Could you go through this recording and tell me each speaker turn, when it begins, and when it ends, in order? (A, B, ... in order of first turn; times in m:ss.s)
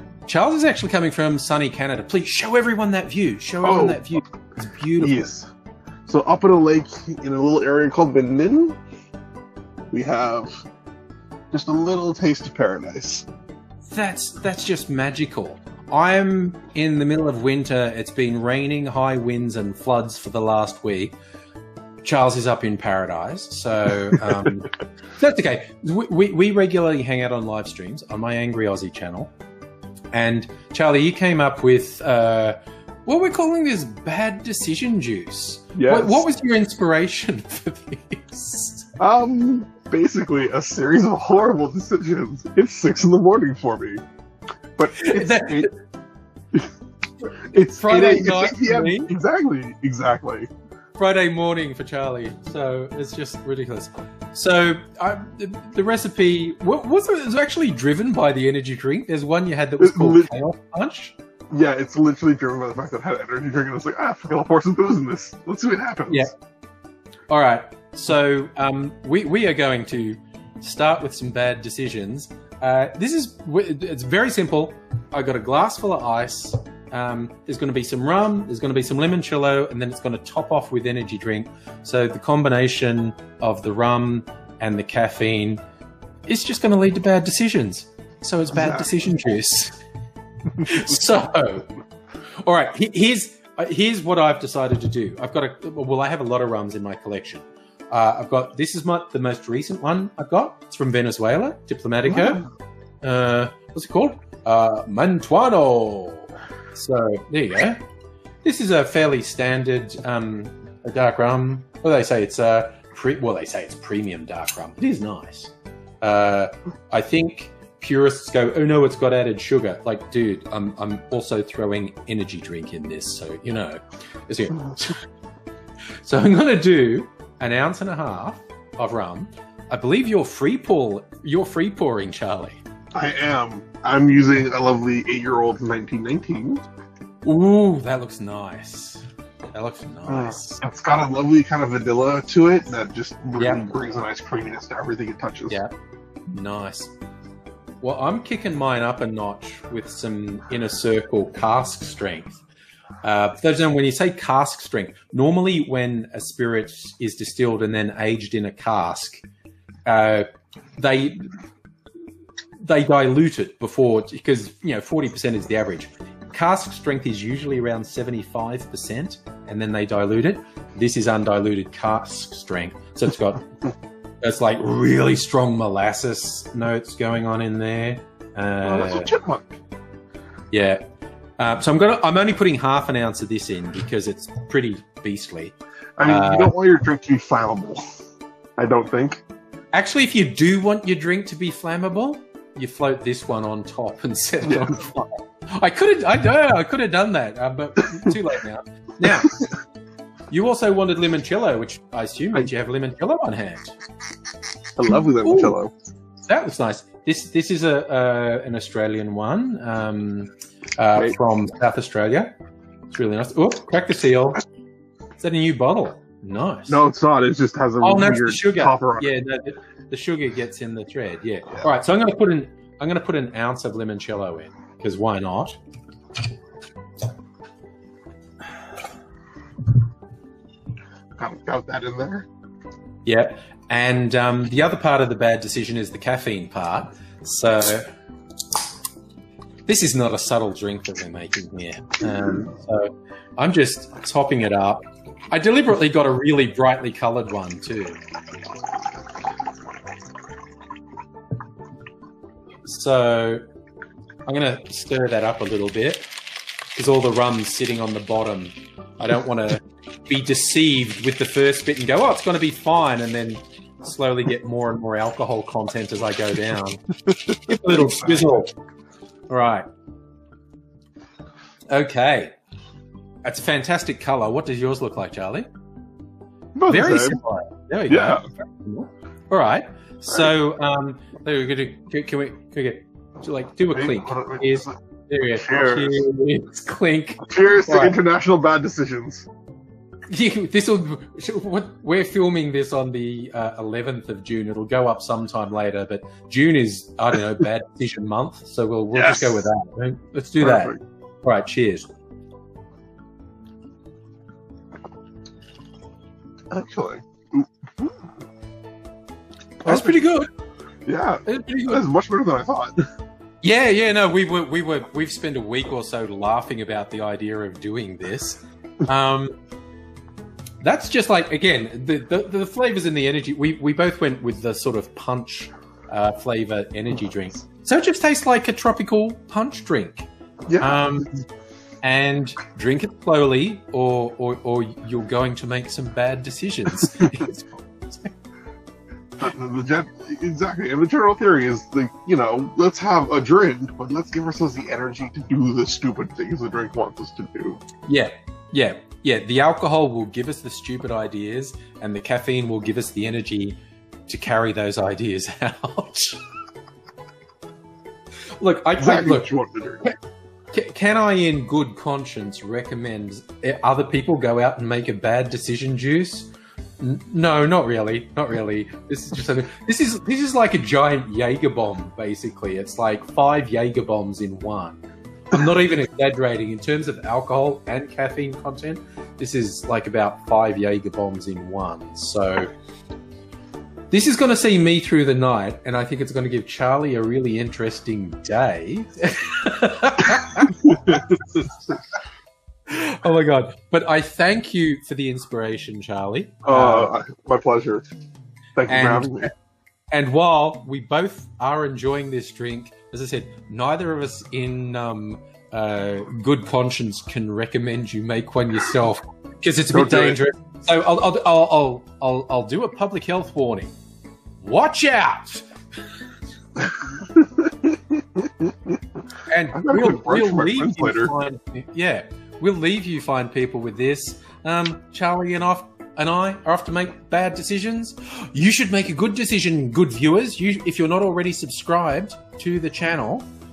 0:00.3-0:05.2 A
0:03.6-0:04.2 B
0:05.0-0:05.5 B
0:06.1-0:08.8 B
0:09.9-0:10.6 B
0:11.5-0:13.3 B
0:13.8-0:21.2 A
0:22.0-0:29.3 A
0:30.1-0:38.9 A
0:35.8-0:36.2 B
0:39.0-0:44.0 B
0:44.8-0:45.7 B
0:45.0-0:45.8 A
0:47.5-0:50.5 B
0:47.8-0:49.1 A
0:51.0-1:01.2 A
0:59.8-1:00.3 B
1:01.5-1:06.3 B
1:07.3-1:25.6 A
1:26.3-1:29.8 A
1:28.5-1:28.9 B
1:30.6-1:31.7 A
1:32.4-1:42.5 A
1:43.0-1:47.8 A
1:48.4-2:05.0 A
2:06.0-2:12.6 A
2:12.9-2:16.6 B
2:17.2-2:20.6 A
2:20.1-2:25.6 B
2:23.4-2:23.6 A
2:25.5-2:25.8 A
2:26.3-2:26.9 A
2:27.8-2:32.4 A
2:33.0-2:39.2 A
2:39.9-2:40.3 A
2:40.8-2:41.4 A
2:42.6-2:53.6 A
2:54.2-2:59.1 A
2:58.6-2:59.6 B
3:00.5-3:00.8 A
3:01.4-3:06.5 A
3:06.0-3:07.8 B
3:08.6-3:09.2 B
3:09.7-3:19.4 A
3:14.4-3:14.8 B
3:20.3-3:23.7 A
3:24.8-3:25.7 B
3:25.2-3:25.6 A
3:26.3-3:32.3 A
3:32.9-3:34.4 A
3:35.2-3:36.9 A
3:36.7-3:39.1 B
3:37.8-3:45.6 A
3:51.2-3:52.3 B
3:53.1-3:57.9 A
3:59.7-4:08.0 A
4:12.7-4:13.4 A
4:14.3-4:16.1 A
4:16.7-4:26.8 A
4:27.4-4:28.5 A
4:27.7-4:28.2 B
4:29.3-4:29.7 A
4:31.7-4:32.3 A
4:33.2-4:35.5 A
4:36.6-4:37.2 B
4:36.7-4:48.0 A
4:37.9-4:38.2 B
4:43.7-4:44.8 B
4:45.4-4:46.0 B
4:47.3-4:49.3 B
4:50.1-5:01.9 A
4:58.9-4:59.4 B
5:00.4-5:00.8 B
5:06.5-5:08.0 B
5:09.6-5:10.0 B
5:09.6-5:10.3 A
5:10.9-5:12.9 B
5:11.3-5:11.8 A
5:13.4-5:19.3 A
5:20.6-5:30.1 A
5:30.5-5:31.0 B
5:30.6-5:31.1 A
5:31.8-5:38.1 A
5:39.2-5:47.6 B
5:47.9-5:56.2 A
5:58.4-5:59.3 A
5:58.8-5:59.8 B
6:00.5-6:22.5 A
6:23.9-6:30.7 A
6:30.5-6:31.2 B
6:32.7-6:36.9 A
6:36.4-6:37.9 B
6:38.6-6:39.3 B
6:38.7-6:39.3 A
6:39.9-6:53.7 A
6:49.7-6:50.2 B
6:54.4-6:55.5 A
6:56.9-6:58.7 B
6:59.3-7:13.3 A
6:59.5-7:01.1 B